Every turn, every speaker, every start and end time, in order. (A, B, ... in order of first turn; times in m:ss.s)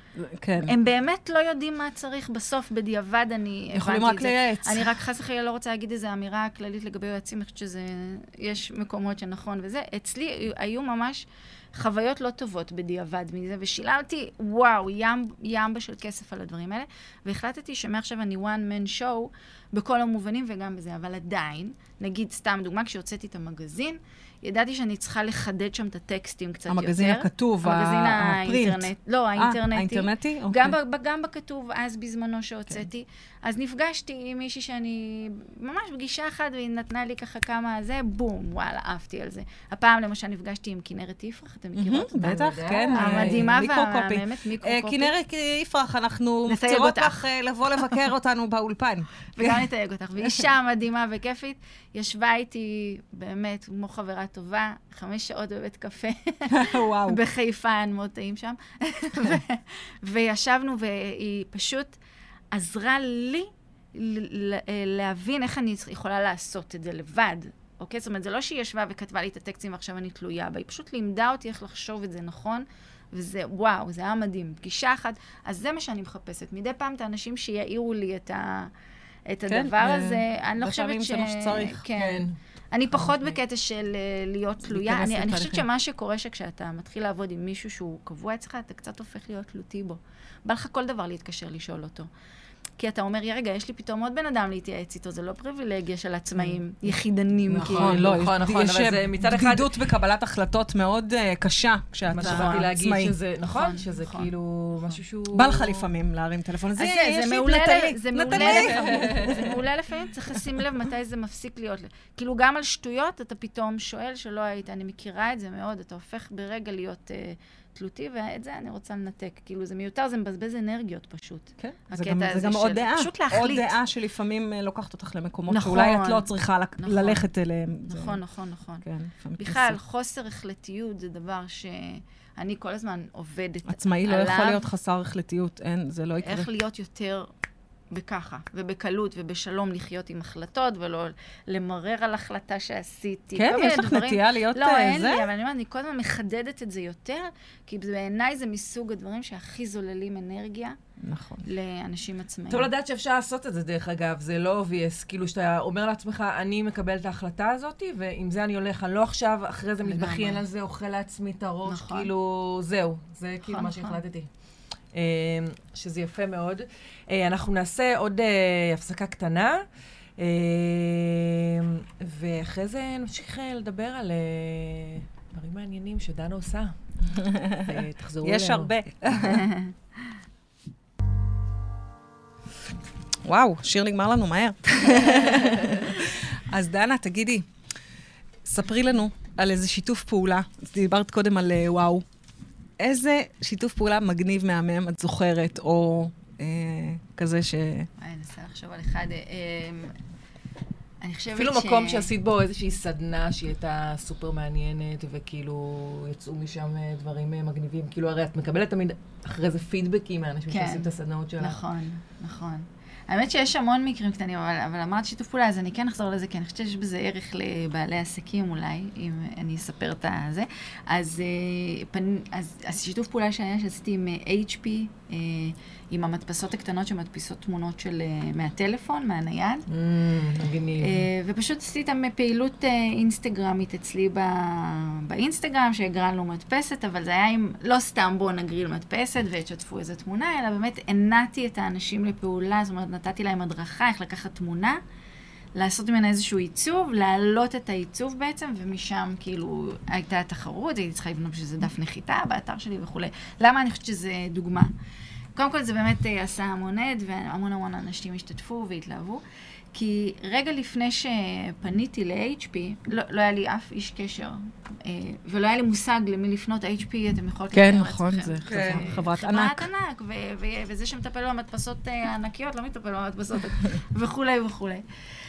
0:00.2-0:00.7 A
0:00.6-0:45.1 B
0:03.7-0:05.0 A
0:26.7-0:30.7 A
0:41.7-0:49.7 A
0:42.2-0:43.5 C
0:46.5-0:47.2 B
0:49.4-1:02.0 B
0:56.5-0:57.2 A
1:02.5-1:18.7 B
1:19.3-1:32.1 B
1:19.5-1:21.9 A
1:21.9-1:22.3 C
1:24.6-1:25.6 A
1:32.8-1:38.0 B
1:37.5-1:39.8 C
1:37.6-1:43.1 A
1:42.1-1:45.9 C
1:42.2-1:42.6 B
1:43.5-1:44.3 B
1:45.3-1:49.5 A
1:46.8-2:03.7 B
1:48.3-1:49.3 C
2:01.6-2:08.2 A
2:05.5-2:07.2 B
2:07.8-2:08.8 B
2:08.8-2:09.8 A
2:09.4-2:14.7 B
2:13.7-2:16.5 A
2:16.2-2:17.3 B
2:17.9-2:30.8 B
2:23.3-2:25.3 A
2:31.0-2:31.5 A
2:31.4-2:32.7 B
2:32.5-2:44.3 C
2:39.8-2:40.4 B
2:41.6-2:42.1 B
2:43.4-2:44.0 B
2:44.9-2:49.6 C
2:50.2-2:56.7 C
2:57.1-2:59.5 A
2:57.6-2:58.7 C
2:59.2-2:59.7 B
3:03.2-3:07.5 A
3:08.4-3:12.0 A
3:12.8-3:17.9 A
3:18.0-3:20.0 B
3:21.0-3:22.1 B
3:21.3-3:31.6 C
3:30.5-3:49.6 B
3:49.7-3:51.1 C
3:50.8-4:04.8 B
4:05.6-4:14.7 B
4:15.4-4:19.2 B
4:19.7-4:34.8 B
4:27.5-4:29.7 A
4:28.5-4:28.9 C